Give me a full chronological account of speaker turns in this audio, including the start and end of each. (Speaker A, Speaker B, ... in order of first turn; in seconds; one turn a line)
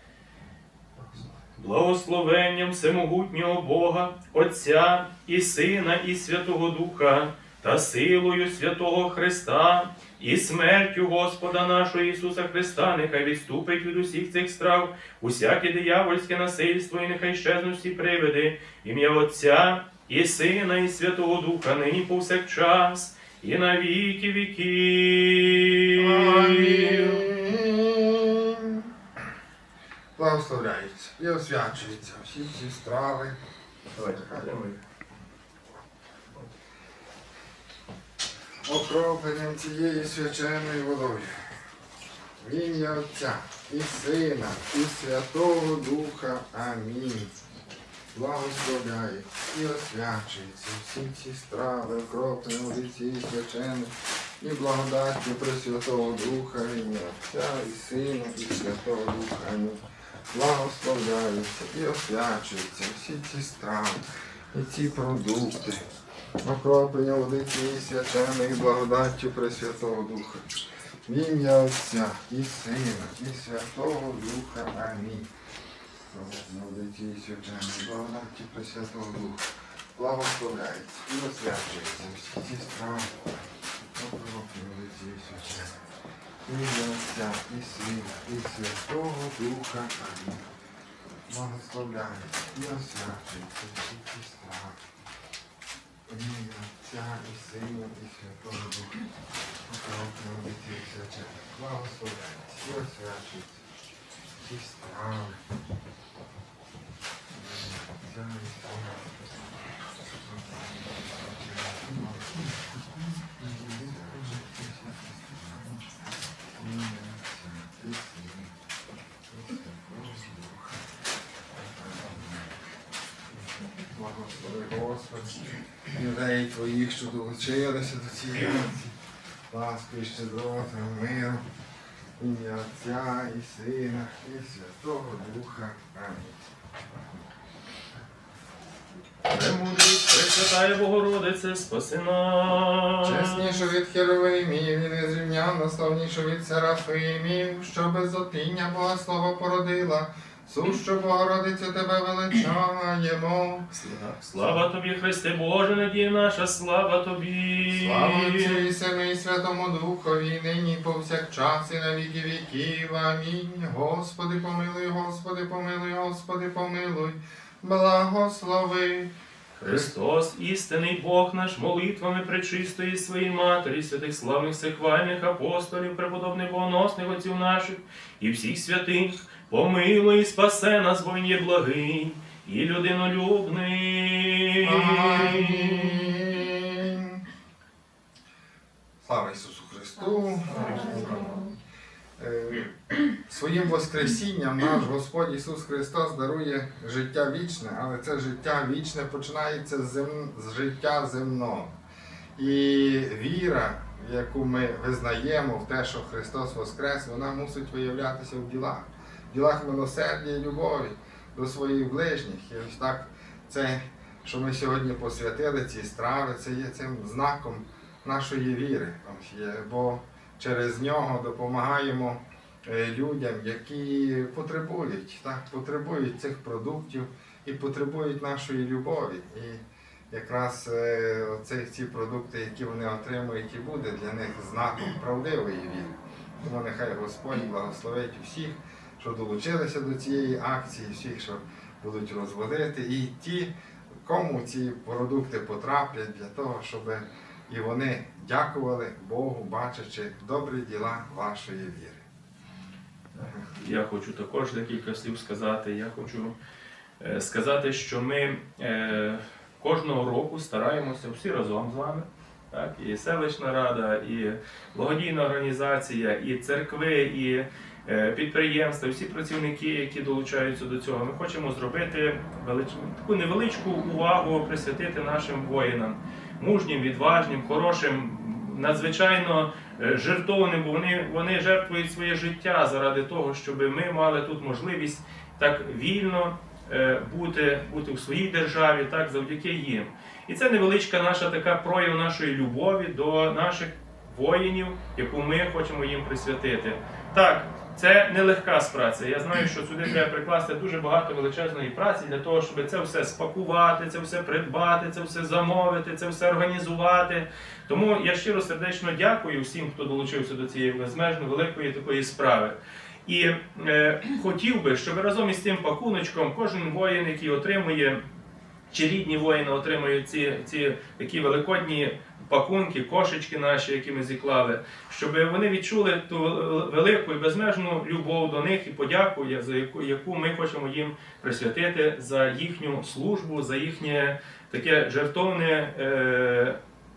Speaker A: 1.5-27.2
Speaker B: 25.9-28.9
Speaker B: 30.1-33.4
Speaker A: 34.0-34.8
Speaker B: 34.1-34.5
Speaker B: 38.6-41.4
Speaker B: 42.4-47.3
Speaker B: 48.1-59.8
Speaker B: 60.3-65.8
Speaker B: 66.4-70.4
Speaker B: 71.0-75.3
Speaker B: 76.1-83.3
Speaker B: 83.9-85.8
Speaker B: 86.4-90.5
Speaker B: 91.3-94.8
Speaker B: 96.1-99.0
Speaker B: 99.7-103.6
Speaker B: 104.3-105.4
Speaker B: 107.3-109.1
Speaker B: 110.2-112.5
Speaker B: 113.4-115.8
Speaker B: 116.5-118.5
Speaker B: 119.3-120.8
Speaker B: 121.6-122.6
Speaker B: 123.9-128.9
Speaker A: 128.3-128.8
Speaker B: 129.5-131.4
Speaker B: 132.2-136.4
Speaker A: 139.3-143.7
Speaker B: 143.0-153.7
Speaker A: 153.7-158.7
Speaker B: 157.7-169.1
Speaker A: 169.6-186.2
Speaker B: 169.6-169.9
Speaker B: 184.6-187.2
Speaker B: 189.0-191.5
Speaker A: 190.7-191.1
Speaker B: 192.2-201.7
Speaker B: 202.3-243.5
Speaker B: 244.0-252.0
Speaker A: 253.5-256.3
Speaker A: 257.0-318.0
Speaker A: 318.7-336.6